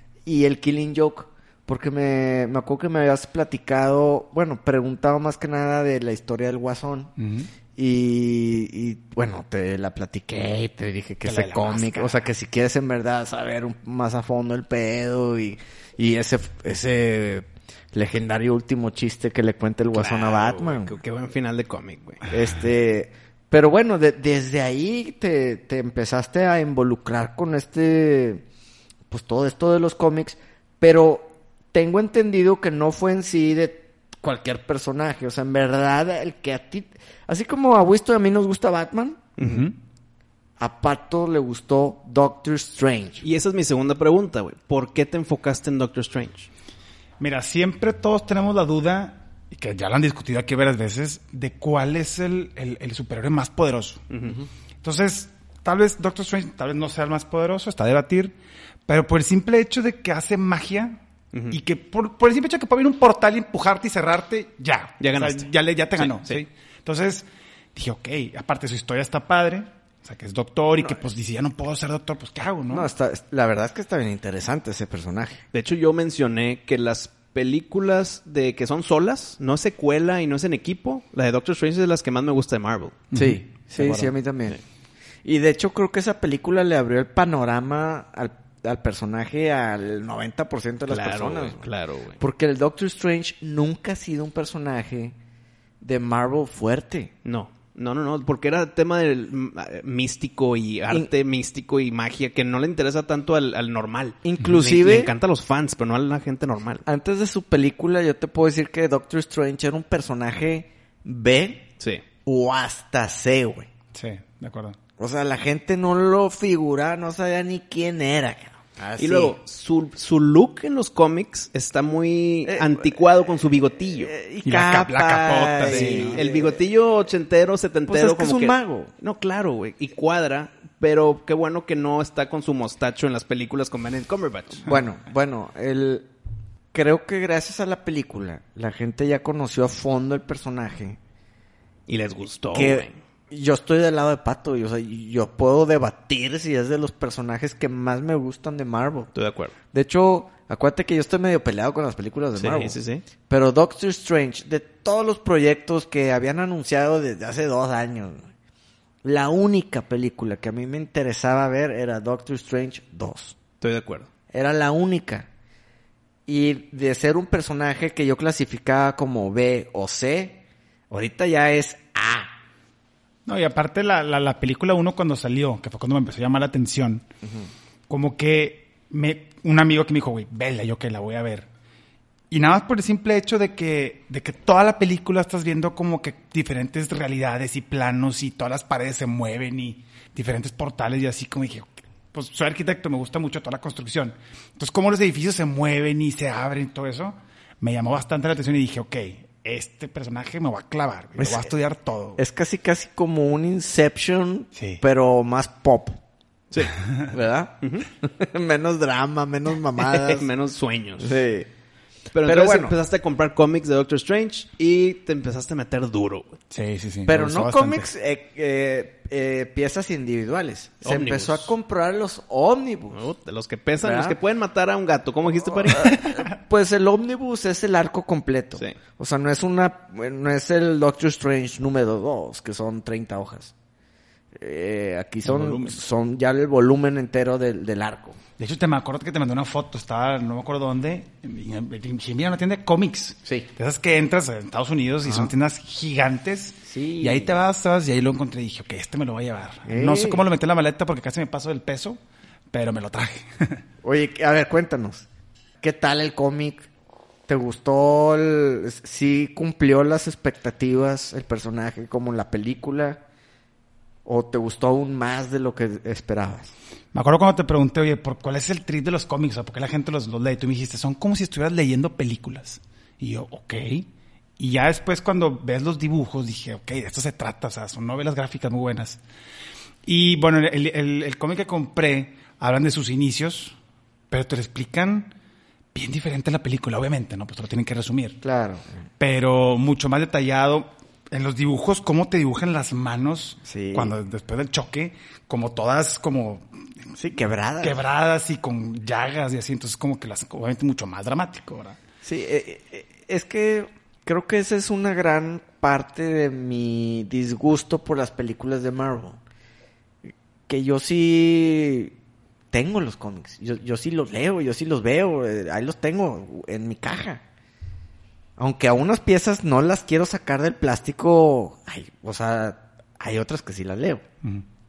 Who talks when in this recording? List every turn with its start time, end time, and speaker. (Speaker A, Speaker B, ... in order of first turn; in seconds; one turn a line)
Speaker A: 0.2-7.1
Speaker B: 7.2-7.5
Speaker A: 7.8-20.9
Speaker B: 11.2-12.2
Speaker C: 19.9-22.3
Speaker A: 22.3-28.4
Speaker A: 29.1-39.3
Speaker C: 39.4-39.7
Speaker B: 39.4-39.7
Speaker A: 40.6-43.2
Speaker C: 43.2-46.5
Speaker B: 47.2-54.1
Speaker C: 54.1-54.4
Speaker B: 54.8-58.4
Speaker B: 58.9-61.0
Speaker B: 61.5-72.9
Speaker C: 65.0-66.5
Speaker A: 72.7-75.4
Speaker C: 75.5-83.0
Speaker B: 83.1-84.1
Speaker A: 83.1-84.6
Speaker A: 85.2-91.7
Speaker C: 90.9-92.2
Speaker A: 92.2-95.2
Speaker A: 95.8-97.1
Speaker C: 97.2-106.8
Speaker A: 104.2-105.1
Speaker A: 106.8-111.7
Speaker A: 112.2-113.7
Speaker B: 113.9-114.8
Speaker A: 115.0-119.3
Speaker C: 119.0-124.1
Speaker A: 122.5-123.0
Speaker A: 123.9-126.6
Speaker B: 124.5-126.2
Speaker C: 125.6-134.7
Speaker A: 127.9-128.9
Speaker A: 134.7-136.1
Speaker A: 136.7-141.0
Speaker C: 141.9-143.0
Speaker A: 142.5-149.1
Speaker C: 149.1-149.5
Speaker A: 149.7-152.8
Speaker C: 152.4-153.0
Speaker A: 153.3-158.2
Speaker A: 159.0-163.4
Speaker C: 163.6-164.1
Speaker A: 164.3-165.3
Speaker A: 166.3-172.3
Speaker B: 173.3-177.1
Speaker A: 177.2-177.5
Speaker B: 177.9-181.5
Speaker B: 182.3-202.2
Speaker A: 201.2-201.5
Speaker A: 202.2-206.0
Speaker B: 204.6-204.8
Speaker A: 207.1-210.3
Speaker C: 207.6-207.9
Speaker C: 209.8-211.2
Speaker A: 211.0-211.5
Speaker C: 212.1-216.4
Speaker A: 212.2-212.8
Speaker B: 216.5-217.9
Speaker A: 217.1-223.1
Speaker C: 220.8-221.5
Speaker C: 222.9-225.9
Speaker A: 223.8-224.2
Speaker A: 225.7-233.5
Speaker A: 234.3-238.2
Speaker B: 235.2-235.8
Speaker B: 238.4-252.0
Speaker A: 245.1-245.3
Speaker A: 246.7-247.3
Speaker A: 249.7-250.2
Speaker B: 252.5-253.6
Speaker A: 253.8-255.1
Speaker A: 255.6-256.7
Speaker A: 257.3-263.0
Speaker A: 264.1-266.5
Speaker B: 266.9-273.9
Speaker B: 274.4-279.0
Speaker B: 279.9-283.6
Speaker B: 284.1-285.1
Speaker B: 285.7-288.2
Speaker A: 288.2-288.7
Speaker B: 289.0-296.5
Speaker A: 293.5-293.9
Speaker A: 297.0-297.8
Speaker B: 297.6-301.8
Speaker A: 302.0-309.2
Speaker A: 310.5-311.9
Speaker A: 312.5-317.2
Speaker A: 318.4-324.0